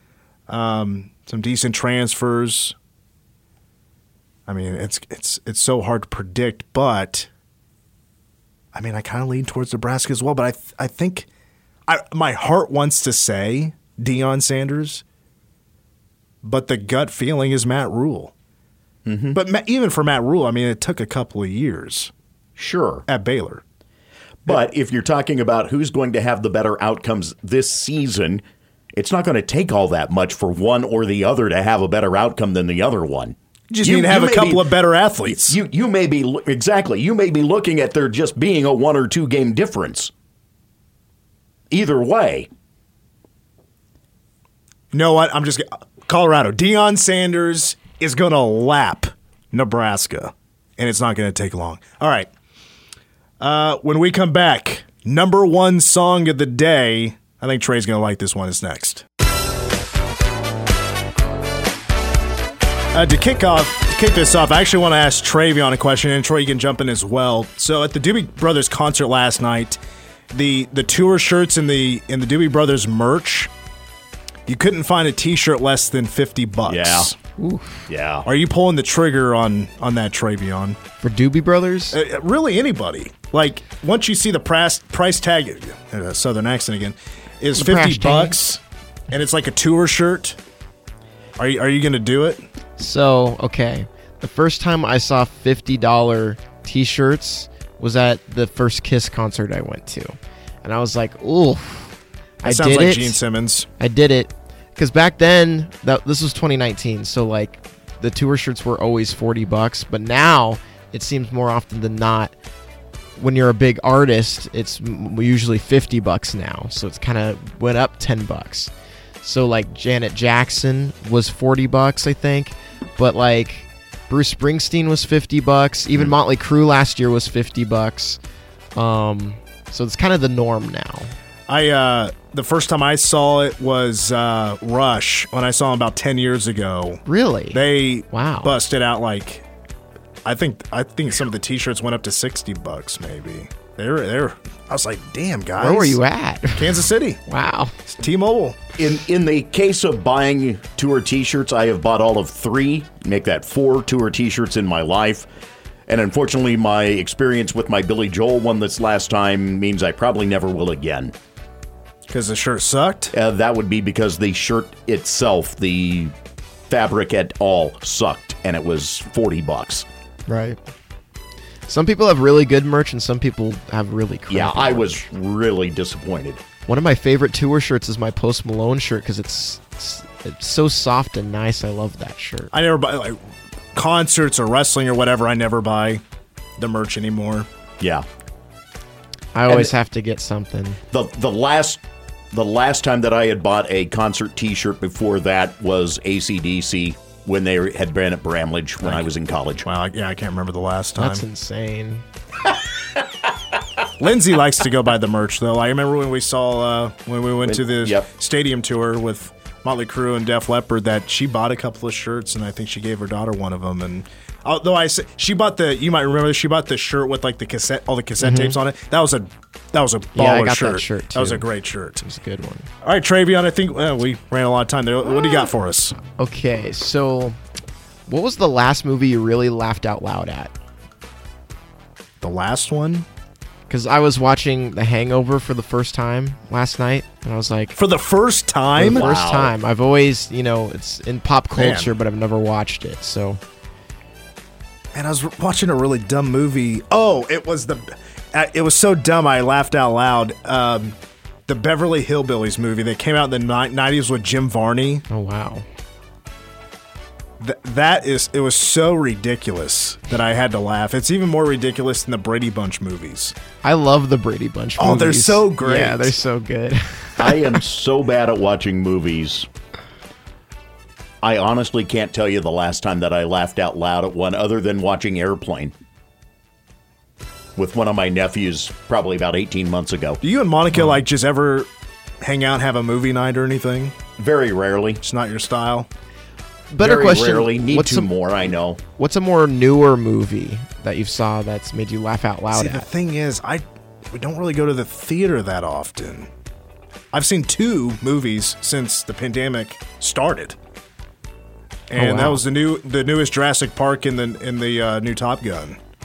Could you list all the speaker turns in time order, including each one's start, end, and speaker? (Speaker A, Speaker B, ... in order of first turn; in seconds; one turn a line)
Speaker A: 0.5-2.8
Speaker A: 4.5-7.3
Speaker A: 8.7-11.3
Speaker A: 11.9-15.0
Speaker A: 16.4-18.3
Speaker B: 19.1-19.4
Speaker A: 19.3-22.1
Speaker B: 22.6-23.1
Speaker A: 23.1-23.6
Speaker B: 24.5-40.1
Speaker A: 33.7-35.6
Speaker B: 41.7-42.5
Speaker A: 44.9-52.3
Speaker A: 53.4-59.0
Speaker A: 62.9-69.8
Speaker A: 70.3-73.5
Speaker A: 74.5-77.2
Speaker B: 76.7-77.1
Speaker C: 77.4-77.9
Speaker B: 77.9-78.3
Speaker A: 78.3-80.8
Speaker C: 81.0-82.0
Speaker A: 81.9-88.6
Speaker C: 87.6-88.4
Speaker A: 89.1-90.4
Speaker A: 91.4-92.4
Speaker C: 92.8-103.2
Speaker A: 102.4-103.7
Speaker C: 103.8-112.3
Speaker C: 113.2-118.7
Speaker C: 119.2-128.2
Speaker C: 128.8-131.1
Speaker A: 131.5-139.4
Speaker C: 137.1-138.6
Speaker A: 140.2-146.0
Speaker C: 145.6-147.8
Speaker A: 146.6-147.2
Speaker A: 147.8-148.6
Speaker B: 148.8-155.3
Speaker B: 155.9-161.1
Speaker A: 162.1-163.1
Speaker B: 163.1-166.1
Speaker B: 166.7-169.9
Speaker C: 170.3-170.6
Speaker C: 171.7-175.1
Speaker B: 174.3-176.4
Speaker C: 176.7-182.5
Speaker A: 182.5-183.2
Speaker A: 183.8-186.0
Speaker A: 186.6-187.5
Speaker B: 187.8-188.1
Speaker C: 189.3-190.8
Speaker B: 189.5-189.7
Speaker B: 190.9-191.8
Speaker B: 192.3-199.7
Speaker A: 199.6-201.2
Speaker C: 201.0-202.1
Speaker A: 204.0-222.0
Speaker B: 207.4-208.1
Speaker C: 218.2-218.6
Speaker C: 220.1-222.7
Speaker A: 222.8-226.0
Speaker C: 226.2-227.4
Speaker C: 228.1-230.5
Speaker A: 232.2-233.1
Speaker C: 233.7-237.8
Speaker A: 237.8-239.1
Speaker B: 238.8-239.6
Speaker C: 238.8-243.4
Speaker A: 241.6-242.0
Speaker A: 244.9-251.0
Speaker A: 251.5-255.0
Speaker C: 255.1-255.7
Speaker A: 257.4-263.3
Speaker C: 263.6-267.6
Speaker A: 264.8-266.2
Speaker B: 267.2-269.5
Speaker B: 271.2-275.7
Speaker B: 277.6-280.2
Speaker A: 280.2-281.7
Speaker C: 280.8-281.0
Speaker A: 282.2-283.9
Speaker B: 284.2-285.0
Speaker A: 285.0-285.9
Speaker C: 286.7-288.1
Speaker B: 286.8-288.8
Speaker C: 289.0-292.9
Speaker A: 292.5-296.3
Speaker A: 297.1-300.6
Speaker A: 301.9-305.8
Speaker C: 301.9-302.4